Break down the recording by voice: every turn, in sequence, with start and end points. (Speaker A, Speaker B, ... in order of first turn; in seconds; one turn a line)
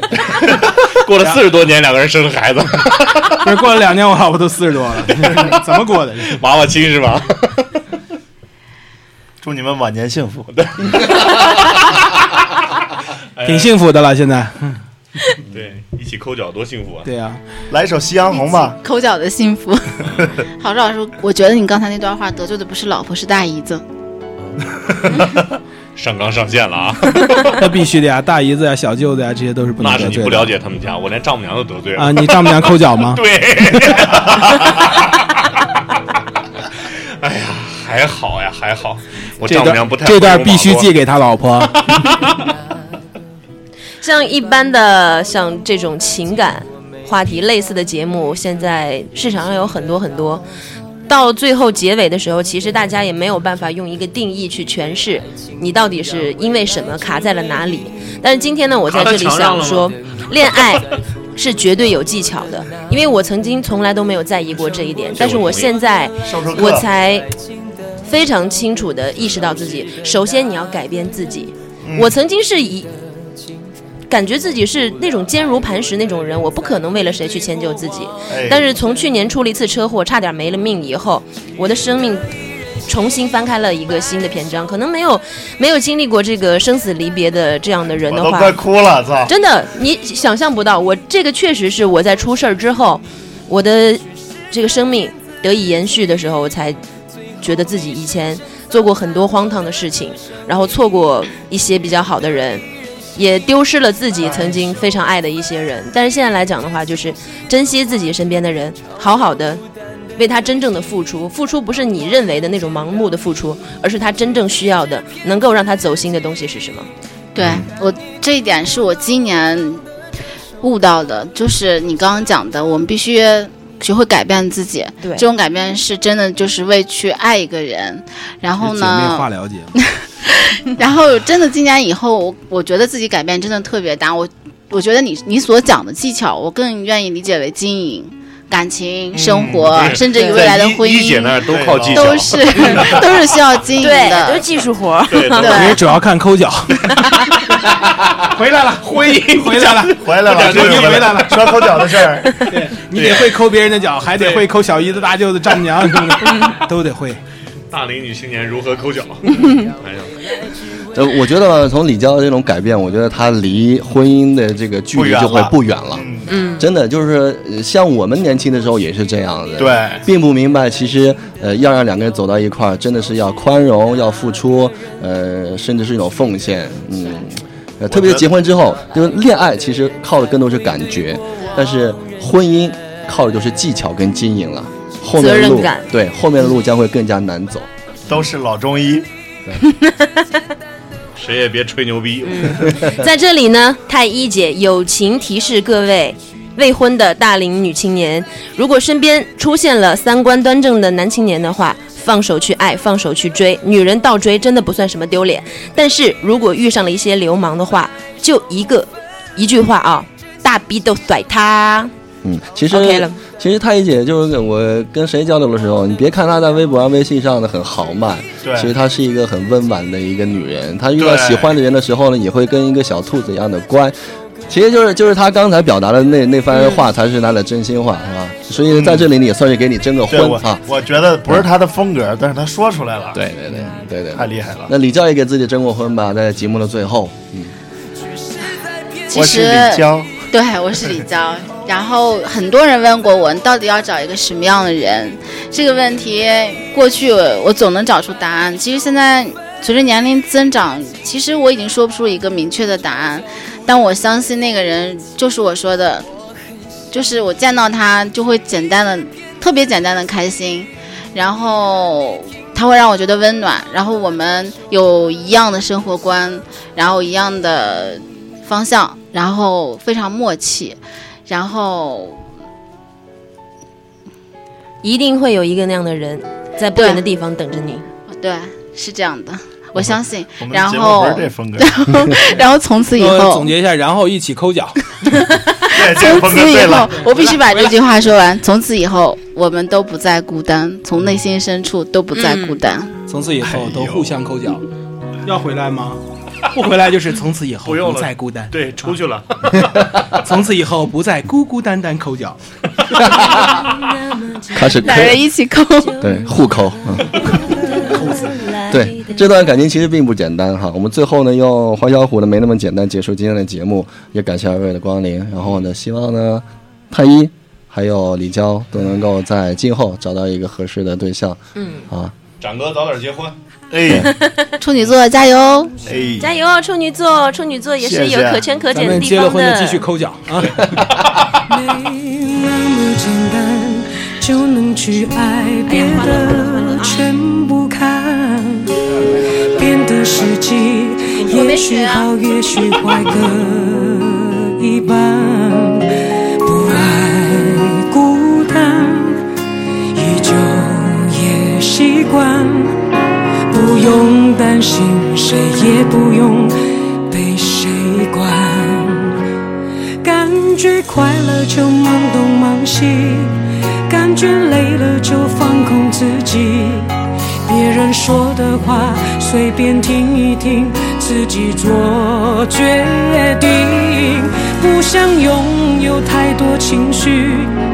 Speaker A: 0.5-3.5
Speaker B: 3.4-6.4
Speaker A: 6.3-7.8
Speaker C: 9.4-10.5
Speaker A: 10.5-11.7
Speaker A: 13.3-13.7
Speaker B: 13.4-14.8
Speaker A: 15.5-17.1
Speaker B: 17.0-17.4
Speaker C: 17.7-18.8
Speaker D: 18.3-23.8
Speaker A: 24.4-25.4
Speaker A: 25.9-27.6
Speaker B: 27.6-30.5
Speaker A: 29.8-35.7
Speaker B: 31.9-33.2
Speaker A: 36.8-40.9
Speaker B: 39.4-42.2
Speaker A: 42.0-42.3
Speaker E: 44.0-50.4
Speaker E: 51.1-67.3
Speaker A: 58.9-60.7
Speaker A: 65.1-65.7
Speaker C: 66.2-66.9
Speaker E: 68.0-73.0
Speaker C: 71.8-72.1
Speaker E: 74.1-82.3
Speaker C: 78.3-78.7
Speaker E: 82.9-88.6
Speaker C: 88.1-89.3
Speaker E: 89.3-96.8
Speaker E: 97.4-109.6
Speaker C: 104.2-104.7
Speaker E: 110.2-116.9
Speaker D: 117.3-119.8
Speaker D: 120.6-144.5
Speaker B: 128.6-129.7
Speaker C: 139.2-139.8
Speaker A: 139.7-143.3
Speaker E: 140.1-140.4
Speaker C: 141.5-142.4
Speaker E: 143.8-145.7
Speaker A: 145.1-145.8
Speaker D: 145.3-145.8
Speaker B: 145.4-157.2
Speaker A: 148.9-151.6
Speaker C: 149.9-152.5
Speaker A: 152.9-153.5
Speaker A: 154.1-154.5
Speaker A: 157.7-160.1
Speaker E: 159.3-159.7
Speaker F: 160.9-187.7
Speaker C: 164.9-166.3
Speaker E: 166.3-166.7
Speaker C: 169.6-170.0
Speaker C: 177.9-178.2
Speaker E: 185.2-185.9
Speaker C: 188.1-189.1
Speaker E: 189.6-190.2
Speaker A: 191.2-192.8
Speaker E: 192.2-211.9
Speaker F: 212.2-223.9
Speaker E: 212.7-213.2
Speaker C: 218.4-218.7
Speaker C: 221.0-221.4
Speaker F: 224.5-230.6
Speaker E: 226.5-226.8
Speaker C: 228.7-229.1
Speaker C: 230.1-233.2
Speaker F: 233.1-237.5
Speaker C: 234.1-234.7
Speaker D: 239.1-256.1
Speaker C: 239.1-240.1
Speaker D: 256.9-272.2
Speaker E: 274.8-277.9
Speaker D: 276.7-277.0
Speaker D: 278.1-283.5
Speaker C: 280.4-281.7
Speaker B: 282.9-284.8
Speaker C: 285.7-287.0
Speaker D: 285.7-292.9
Speaker E: 292.1-292.6
Speaker B: 293.1-294.7
Speaker A: 293.4-294.1
Speaker B: 295.2-296.0
Speaker B: 296.5-298.9
Speaker A: 297.6-299.8
Speaker B: 300.1-302.4
Speaker F: 303.0-303.6
Speaker G: 303.1-304.7
Speaker F: 304.5-305.3
Speaker D: 304.7-306.1
Speaker E: 305.8-309.4
Speaker F: 306.0-307.5
Speaker B: 307.8-308.5
Speaker F: 308.7-322.1
Speaker E: 321.6-321.9
Speaker A: 322.4-323.4
Speaker C: 323.7-324.1
Speaker E: 323.9-324.5
Speaker D: 324.6-325.8
Speaker C: 325.8-326.3
Speaker E: 326.2-329.8
Speaker C: 327.8-328.5
Speaker B: 328.7-330.8
Speaker G: 331.4-338.7
Speaker E: 335.7-337.0
Speaker G: 339.4-349.2
Speaker D: 341.1-342.1
Speaker G: 349.9-352.8
Speaker G: 353.5-356.6
Speaker G: 357.1-359.2
Speaker G: 360.0-363.4
Speaker G: 363.9-366.9
Speaker G: 367.4-377.6